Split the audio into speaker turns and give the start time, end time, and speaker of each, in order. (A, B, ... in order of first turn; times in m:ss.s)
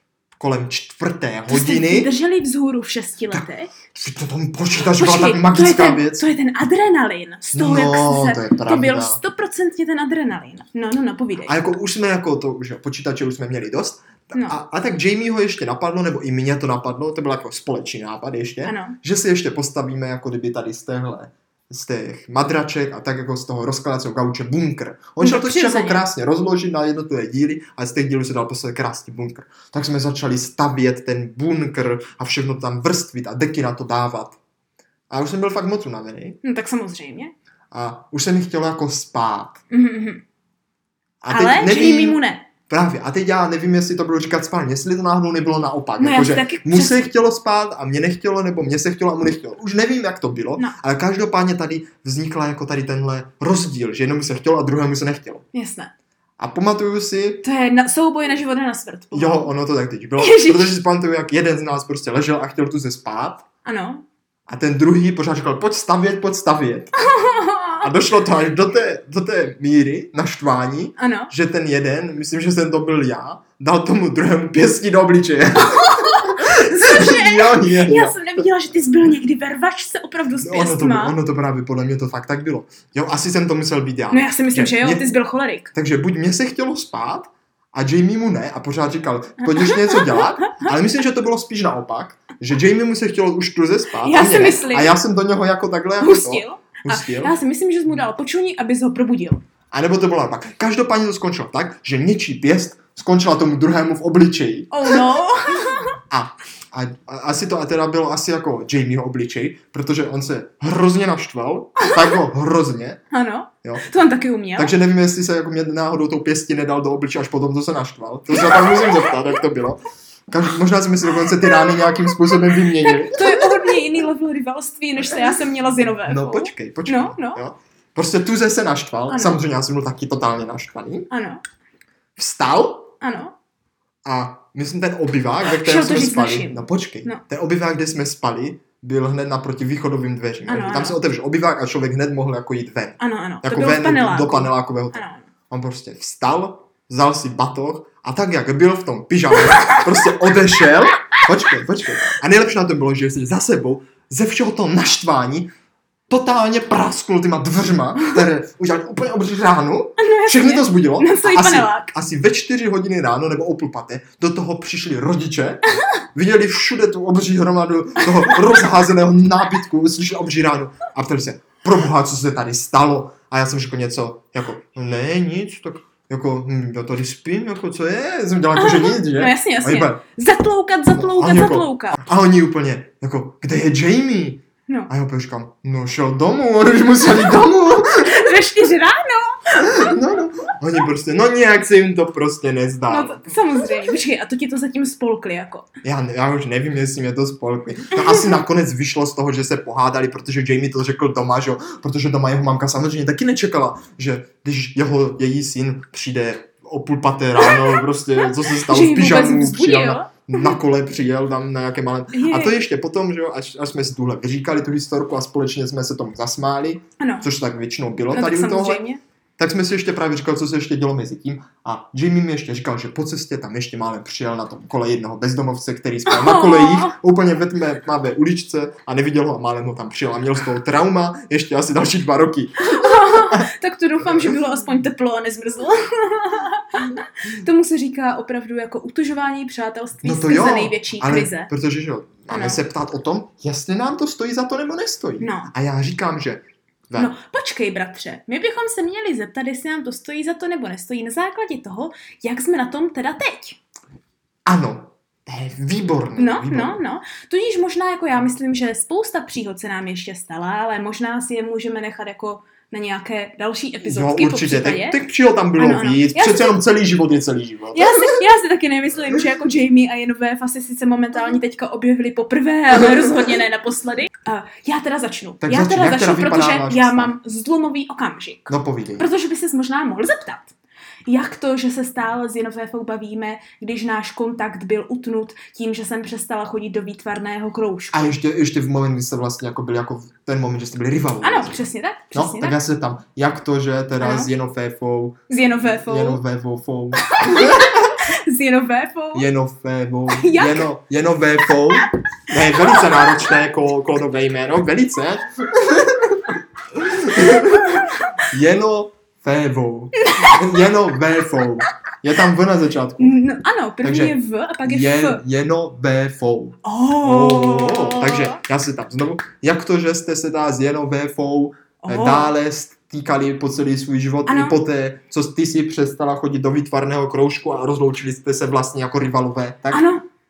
0:00.4-0:02.1 A
0:01.5-0:03.7 B
0:03.3-0:06.2 A
0:04.8-0:11.5 B
0:07.5-0:09.2 A
0:11.4-0:34.4 A
0:18.6-0:19.0 B
0:25.2-0:26.0 B
0:35.1-0:36.4 A
0:36.4-0:37.3 B
0:37.7-0:39.6 A
0:39.7-0:40.2 B
0:41.2-0:55.4 A
0:41.3-0:42.5 B
0:46.0-0:47.1 B
0:55.5-0:55.9 B
0:56.4-0:57.4 A
0:57.4-0:59.5 B
0:59.1-1:03.4 A
1:00.2-1:00.8 B
1:03.6-1:04.0 B
1:04.5-1:07.0 A
1:07.0-1:07.9 B
1:07.8-1:18.2 A
1:11.0-1:11.3 B
1:15.6-1:21.2 B
1:20.4-1:25.1 A
1:24.1-1:25.7 B
1:25.7-1:37.3 A
1:29.4-1:30.7 B
1:34.0-1:35.0 B
1:36.0-1:39.4 B
1:39.7-1:45.1 A
1:44.7-1:45.9 B
1:46.1-1:53.0 A
1:53.1-1:54.7 B
1:54.6-2:03.6 A
1:58.3-1:59.2 B
2:01.4-2:07.4 B
2:06.0-2:11.1 A
2:09.1-2:09.4 B
2:11.1-2:11.4 B
2:12.2-2:12.9 A
2:13.0-2:13.3 B
2:14.0-2:35.5 A
2:15.4-2:17.2 B
2:20.5-2:21.0 B
2:23.0-2:25.2 B
2:29.4-2:30.1 B
2:36.1-3:00.0 A
2:40.0-2:41.9 B
2:48.0-2:48.7 B
2:58.6-3:02.0 B
3:00.9-3:08.4 A
3:08.0-3:10.0 B
3:09.5-3:13.4 A
3:12.9-3:15.7 B
3:15.8-3:38.8 A
3:18.0-3:18.4 B
3:27.4-3:30.6 B
3:32.1-3:32.6 B
3:37.0-3:37.3 B
3:38.1-3:39.0 B
3:39.4-3:53.5 A
3:46.1-3:46.9 B
3:52.6-4:01.5 B
4:00.0-4:07.1 A
4:02.3-4:02.6 B
4:05.2-4:05.5 B
4:07.0-4:13.6 B
4:14.4-4:16.8 A
4:16.2-4:25.0 B
4:23.8-4:28.2 A
4:25.6-4:26.6 B
4:27.7-4:40.5 B
4:35.4-4:37.1 A
4:38.5-4:39.1 A
4:41.1-4:48.1 B
4:47.9-4:51.6 A
4:51.2-4:52.6 B
4:52.1-4:57.9 A
4:54.0-4:54.3 B
4:55.3-4:56.2 B
4:57.1-4:59.2 B
4:59.1-5:13.2 A
5:00.1-5:00.7 B
5:07.5-5:08.1 B
5:10.0-5:10.6 B
5:13.0-5:15.2 B
5:13.8-5:29.9 A
5:16.6-5:18.4 B
5:21.8-5:22.3 B
5:24.3-5:24.6 B
5:29.7-5:30.0 B